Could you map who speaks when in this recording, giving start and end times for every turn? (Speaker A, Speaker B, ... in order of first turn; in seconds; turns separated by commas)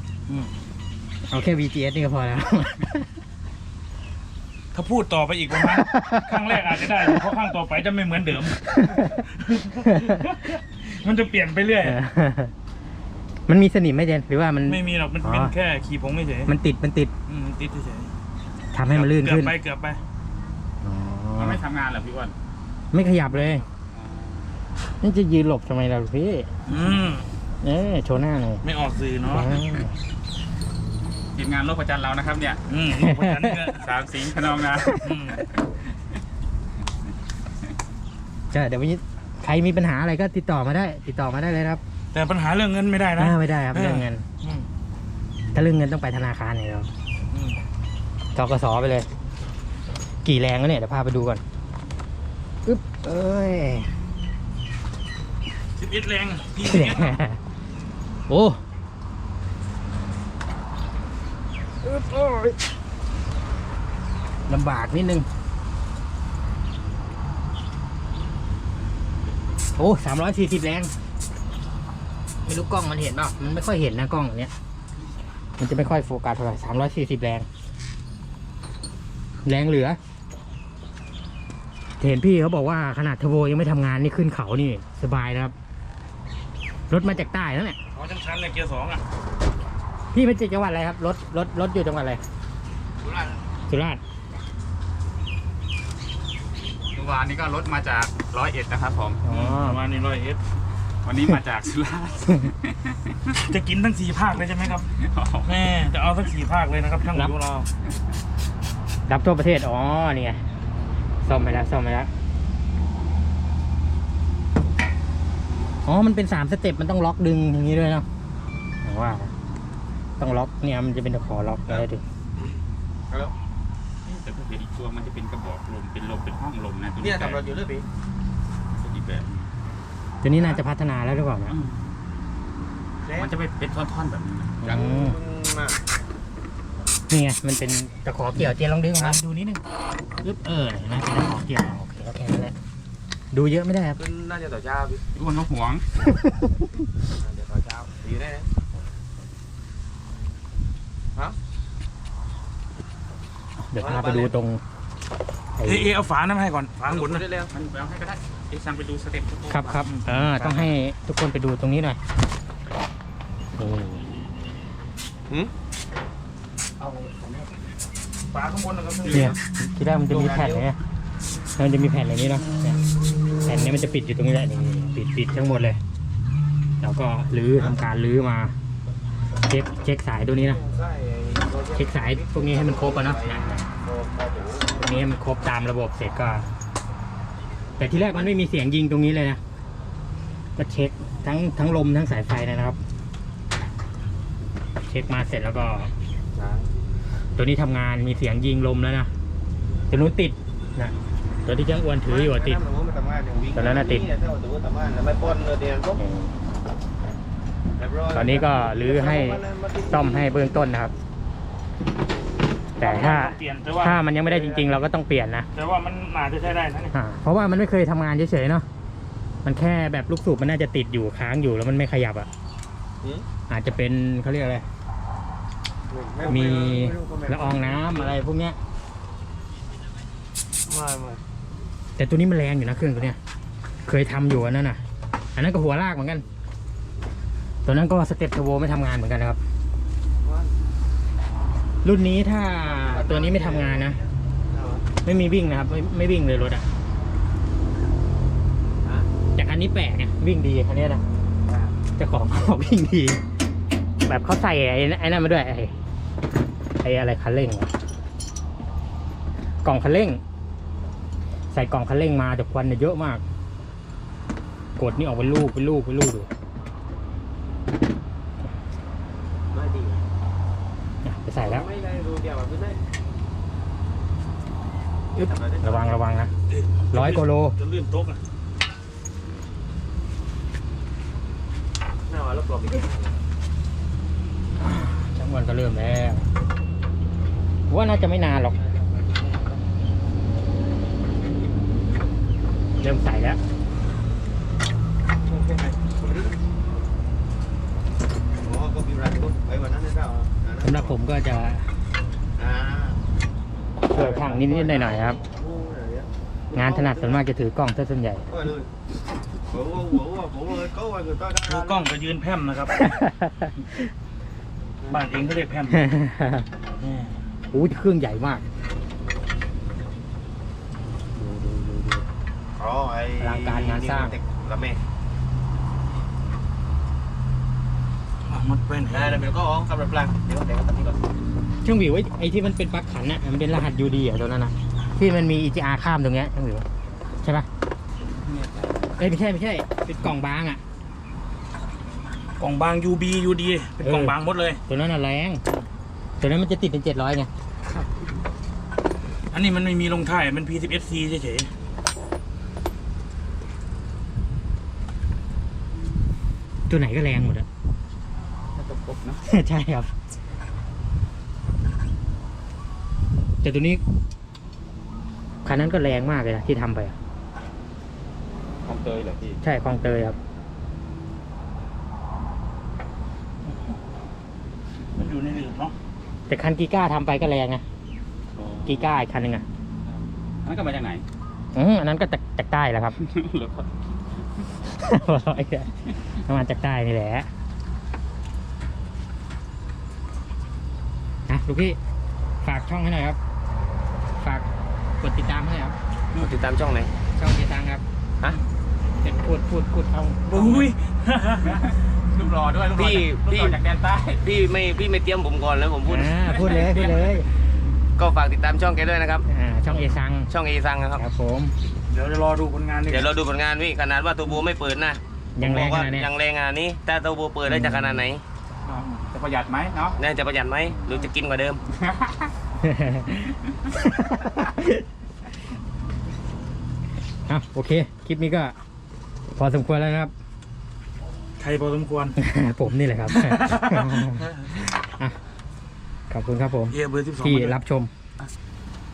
Speaker A: 1.3-3.1, Speaker B: 4.7-12.0, Speaker A: 5.6-7.2, Speaker A: 11.8-12.5, Speaker A: 13.5-15.5, Speaker B: 14.7-16.5, Speaker A: 16.4-17.1, Speaker B: 17.3-18.1, Speaker A: 18.7-19.5, Speaker B: 18.9-20.0, Speaker A: 20.8-21.6, Speaker C: 21.4-22.4, Speaker A: 22.9-23.6, Speaker B: 23.3-23.6, Speaker C: 23.9-24.4, Speaker A: 25.0-26.5, Speaker B: 26.7-27.3, Speaker A: 27.6-28.6, Speaker B: 28.6-29.6, Speaker A: 29.3-29.9, Speaker C: 31.3-32.6, Speaker B: 32.7-33.9, Speaker A: 32.9-33.6, Speaker C: 33.7-35.0, Speaker B: 35.0-35.4, Speaker A: 35.0-35.4, Speaker A: 38.5-41.8, Speaker B: 42.1-44.7, Speaker A: 43.1-44.2, Speaker A: 45.5-46.9, Speaker B: 47.3-47.6, Speaker A: 48.3-49.1, Speaker A: 50.0-51.4, Speaker A: 52.6-53.9, Speaker B: 55.8-57.2, Speaker A: 56.6-57.4, Speaker A: 58.3-58.6, Speaker A: 61.8-62.6, Speaker A: 64.5-65.3, Speaker A: 69.8-70.9, Speaker A: 72.4-74.5, Speaker A: 75.6-77.5, Speaker A: 79.4-80.0, Speaker A: 82.0-85.5, Speaker A: 86.9-87.8, Speaker B: 87.9-89.0, Speaker A: 90.1-92.2, Speaker D: 93.0-93.4, Speaker A: 93.7-94.0, Speaker C: 96.9-99.2, Speaker A: 99.2-99.8, Speaker B: 99.2-100.4, Speaker C: 101.0-103.2, Speaker B: 103.3-104.9, Speaker C: 104.9-105.6, Speaker B: 105.4-107.7, Speaker A: 109.1-110.4, Speaker A: 111.2-112.1, Speaker A: 115.8-118.0, Speaker A: 118.8-119.3, Speaker A: 120.2-122.0, Speaker C: 124.0-127.4, Speaker D: 127.0-127.8, Speaker C: 128.8-129.3, Speaker A: 130.2-131.5, Speaker C: 131.5-131.9, Speaker D: 133.0-133.3, Speaker C: 133.1-134.7, Speaker A: 134.6-135.2, Speaker D: 134.6-135.8, Speaker A: 137.1-139.6, Speaker A: 140.2-142.5, Speaker A: 143.3-144.0, Speaker D: 144.0-145.0, Speaker C: 145.1-145.8, Speaker D: 147.2-148.5, Speaker A: 153.6-154.6, Speaker D: 153.8-154.3, Speaker A: 155.6-155.9, Speaker B: 155.6-157.2, Speaker D: 156.9-157.5, Speaker C: 157.3-159.8, Speaker A: 159.5-162.0, Speaker B: 160.3-160.6, Speaker A: 163.6-164.1, Speaker B: 166.8-167.2, Speaker B: 168.3-169.3, Speaker D: 169.1-169.4, Speaker A: 169.1-170.8, Speaker D: 170.1-170.6, Speaker A: 171.5-172.8, Speaker A: 173.4-175.8, Speaker A: 176.8-178.5, Speaker A: 179.4-180.6, Speaker D: 180.5-184.7, Speaker A: 181.7-183.6, Speaker A: 184.7-186.5, Speaker A: 187.8-189.4, Speaker D: 187.9-188.3, Speaker A: 190.6-192.8, Speaker A: 194.8-195.9, Speaker D: 196.3-196.7, Speaker A: 197.3-199.1, Speaker A: 199.9-202.6, Speaker D: 202.1-206.0, Speaker A: 203.5-204.1, Speaker A: 206.0-206.3, Speaker D: 207.8-210.3, Speaker A: 208.1-210.9, Speaker A: 212.8-215.5, Speaker B: 212.8-214.0, Speaker D: 214.3-214.7, Speaker B: 215.5-216.9, Speaker A: 216.9-218.7, Speaker A: 219.4-222.3, Speaker A: 223.5-224.6, Speaker D: 225.9-228.1, Speaker A: 226.3-228.6, Speaker D: 230.7-231.2, Speaker A: 232.0-233.2, Speaker A: 233.8-234.8, Speaker A: 235.3-236.2, Speaker A: 237.6-239.4, Speaker D: 240.2-240.5, Speaker A: 241.8-244.0, Speaker D: 242.7-244.9, Speaker A: 245.0-246.7, Speaker D: 248.8-249.1, Speaker A: 249.3-251.0, Speaker D: 251.4-251.7, Speaker A: 252.0-253.2, Speaker A: 254.0-255.7, Speaker A: 256.8-257.7, Speaker A: 259.6-260.2, Speaker A: 261.5-263.2, Speaker A: 264.8-266.3, Speaker D: 269.5-270.0, Speaker A: 271.0-271.7, Speaker D: 271.4-272.8, Speaker D: 275.1-276.0, Speaker A: 275.2-276.3, Speaker B: 276.5-278.2, Speaker A: 276.9-277.6, Speaker D: 282.1-283.2, Speaker A: 284.6-286.3, Speaker A: 287.7-288.5, Speaker D: 288.4-289.6, Speaker A: 292.8-293.4, Speaker D: 295.2-296.4, Speaker D: 298.4-300.9, Speaker A: 300.6-301.7, Speaker D: 302.4-303.0, Speaker A: 303.9-305.2, Speaker D: 303.9-307.2, Speaker A: 306.5-308.3, Speaker D: 308.3-308.7, Speaker D: 309.5-311.8, Speaker B: 311.4-312.8, Speaker A: 312.8-313.5, Speaker D: 314.8-315.1, Speaker B: 314.9-315.9, Speaker A: 315.7-316.5, Speaker B: 316.8-317.2, Speaker A: 317.5-318.4, Speaker A: 321.2-322.0, Speaker D: 322.6-324.8, Speaker A: 323.2-324.1, Speaker B: 328.2-329.3, Speaker D: 328.9-331.1, Speaker A: 331.6-336.6, Speaker C: 338.2-338.9, Speaker A: 339.0-340.6, Speaker B: 342.4-344.6, Speaker A: 343.8-344.1, Speaker A: 344.7-345.4, Speaker A: 346.2-347.3, Speaker B: 349.3-351.5, Speaker A: 356.7-357.5, Speaker C: 358.5-359.2, Speaker A: 359.2-359.9, Speaker A: 363.4-363.8, Speaker A: 365.4-366.9, Speaker C: 368.6-369.4, Speaker A: 369.4-370.2, Speaker B: 374.9-375.7, Speaker A: 376.3-377.6, Speaker C: 378.3-378.9, Speaker A: 378.6-379.4, Speaker C: 380.4-381.0, Speaker A: 381.5-383.0, Speaker C: 383.0-383.7, Speaker A: 384.6-385.7, Speaker A: 386.2-387.3, Speaker A: 391.3-391.8, Speaker A: 392.4-393.2, Speaker A: 394.1-394.5, Speaker A: 395.0-395.8, Speaker D: 396.1-396.9, Speaker A: 397.1-397.8, Speaker A: 399.0-400.3, Speaker B: 400.2-401.6, Speaker C: 401.4-404.3, Speaker D: 402.8-403.6, Speaker D: 404.2-406.8, Speaker A: 405.9-407.3, Speaker D: 408.0-409.2, Speaker A: 409.3-410.3, Speaker D: 410.3-411.0, Speaker A: 410.9-411.5, Speaker B: 411.9-413.1, Speaker D: 412.9-418.2, Speaker A: 415.4-416.1, Speaker A: 417.5-418.0, Speaker C: 418.6-420.0, Speaker D: 420.0-421.6, Speaker A: 420.7-421.0, Speaker C: 421.7-422.3, Speaker A: 422.6-424.8, Speaker A: 427.3-428.5, Speaker A: 429.3-430.1, Speaker B: 431.4-432.2, Speaker A: 432.2-435.2, Speaker B: 433.1-434.6, Speaker A: 436.1-437.9, Speaker B: 436.7-437.6